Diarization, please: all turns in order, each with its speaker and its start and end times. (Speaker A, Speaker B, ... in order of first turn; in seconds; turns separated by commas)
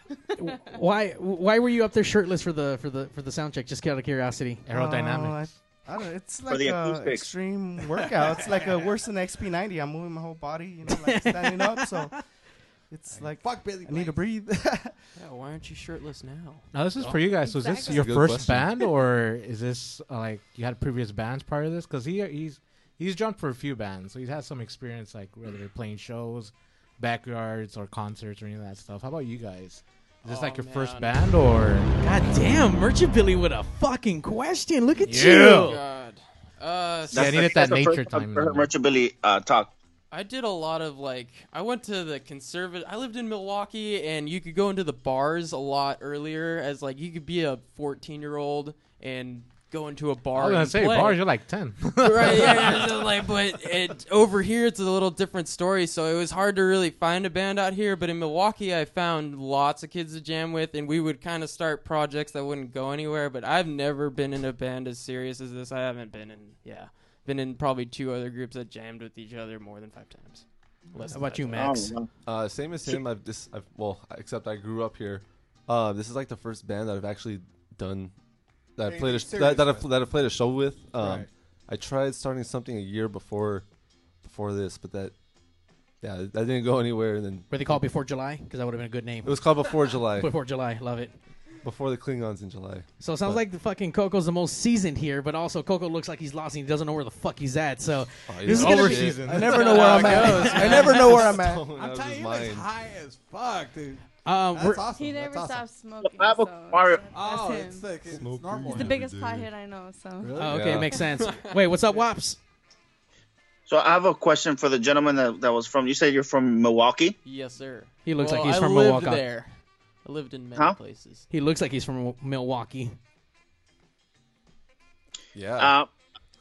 Speaker A: 0.4-4.6, Speaker B: 4.7-5.5, Speaker C: 4.7-12.3, Speaker D: 6.5-7.3, Speaker E: 8.0-8.8, Speaker A: 10.9-12.0, Speaker C: 12.9-14.9, Speaker E: 13.1-14.2, Speaker F: 15.2-16.7, Speaker B: 16.7-31.9, Speaker G: 17.4-18.1, Speaker H: 17.9-18.7, Speaker F: 30.2-31.1, Speaker A: 32.0-35.8, Speaker B: 35.0-35.8, Speaker F: 35.3-37.4, Speaker B: 37.1-38.7, Speaker D: 37.1-39.7, Speaker F: 40.1-51.2, Speaker B: 50.3-52.9, Speaker F: 52.0-71.8, Speaker A: 71.1-72.0, Speaker D: 71.5-72.1, Speaker H: 72.2-78.1, Speaker H: 78.8-83.6, Speaker E: 78.8-79.9, Speaker E: 81.0-81.3, Speaker H: 84.2-85.1, Speaker H: 86.0-87.5, Speaker A: 87.5-91.1, Speaker H: 89.2-90.3, Speaker H: 91.6-93.4, Speaker A: 93.0-99.2, Speaker H: 98.3-99.4, Speaker B: 98.5-100.7, Speaker C: 98.6-101.7, Speaker E: 99.1-105.7, Speaker F: 99.5-100.9, Speaker A: 100.0-100.3, Speaker H: 100.4-102.7, Speaker A: 104.2-104.8, Speaker G: 104.9-108.0, Speaker D: 106.0-107.0, Speaker E: 107.1-109.1, Speaker H: 108.1-109.5, Speaker G: 108.7-110.4, Speaker E: 110.2-110.8, Speaker A: 110.4-112.4, Speaker H: 110.4-110.9, Speaker F: 111.2-111.5, Speaker D: 113.7-117.2, Speaker F: 117.2-121.3, Speaker A: 118.0-119.2, Speaker A: 121.3-123.0, Speaker H: 125.3-125.7, Speaker D: 125.6-125.9